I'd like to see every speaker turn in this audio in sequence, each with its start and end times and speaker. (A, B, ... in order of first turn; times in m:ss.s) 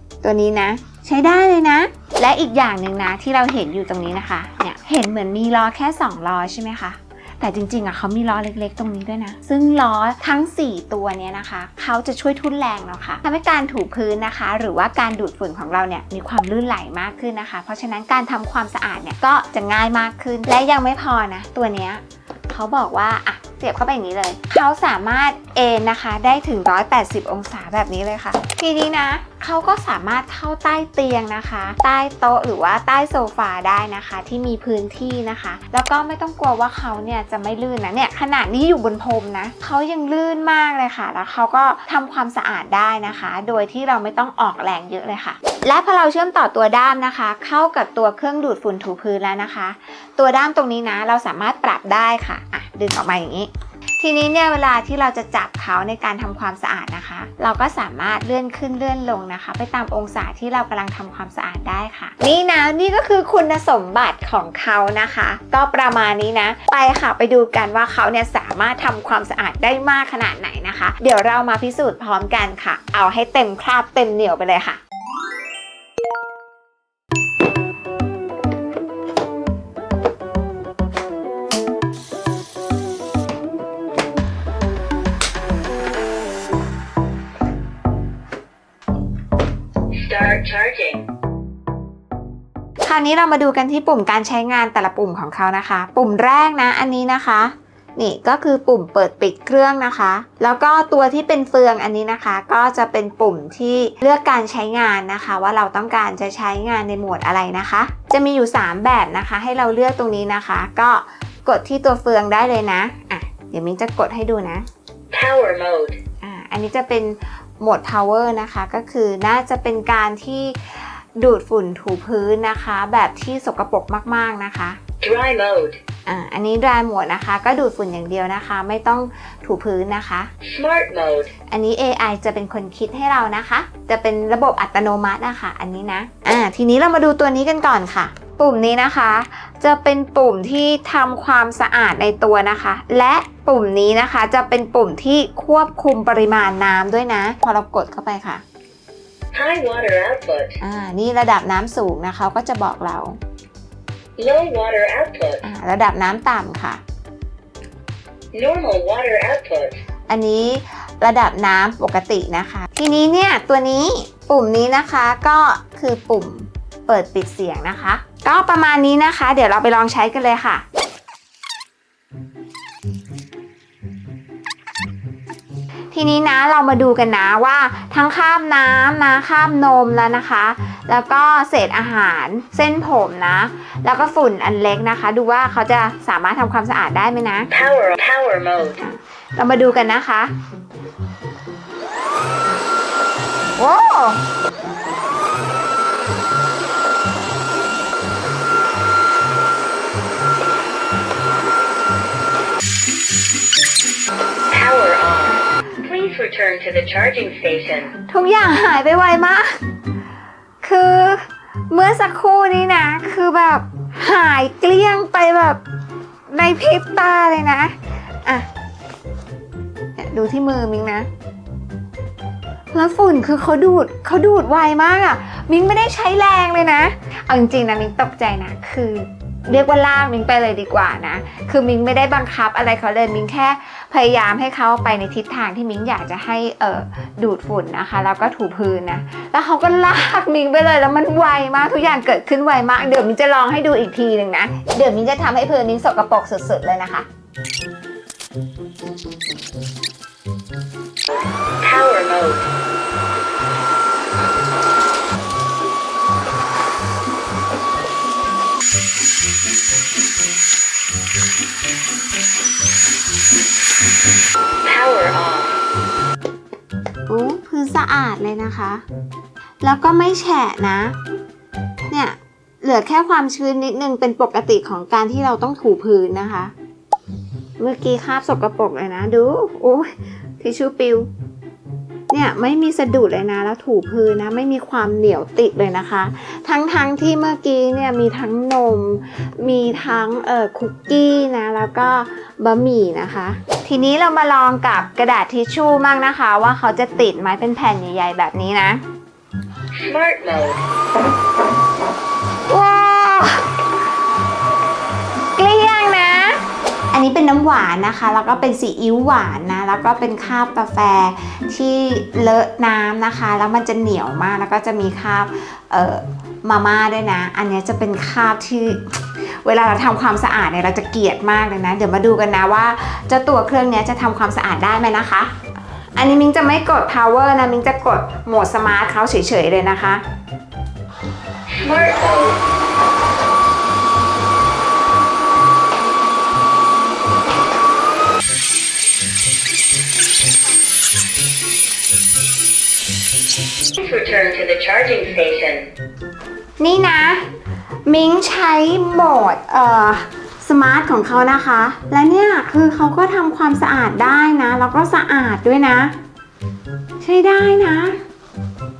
0:00.2-1:14.8 A
1:29.9-1:31.0 B
1:32.8-1:54.7 A
1:55.1-1:56.0 B
1:56.2-2:04.8 A
2:05.0-2:05.8 B
2:06.1-2:10.3 A
2:10.5-2:11.3 B
2:11.5-2:28.4 A
2:29.3-2:30.6 B
2:30.6-2:33.2 A
2:34.2-2:35.4 B
2:35.4-2:36.8 A
2:38.3-2:39.8 B
2:40.1-2:50.6 A
2:55.9-3:07.5 A
3:07.5-3:08.8 B
3:08.8-3:10.3 A
3:13.6-3:14.2 A
3:24.5-3:27.9 B
3:28.1-3:29.6 A
3:30.6-3:35.6 A
3:36.3-3:38.5 A
3:40.0-3:41.1 A
3:42.7-4:07.1 A
4:11.6-4:12.5 B
4:24.6-4:25.6 B
4:27.1-4:28.8 A
4:29.6-4:31.0 A
4:31.9-4:36.5 A
4:37.6-4:41.1 A
4:42.1-4:58.8 A
4:59.7-5:00.6 B
5:02.5-5:03.4 A
5:05.4-5:06.4 A
5:06.9-5:25.3 A
5:26.0-5:30.0 A
5:31.5-5:32.4 B
5:43.8-5:45.7 B
5:46.6-5:47.3 A
5:47.8-5:56.0 A
5:57.0-5:58.0 A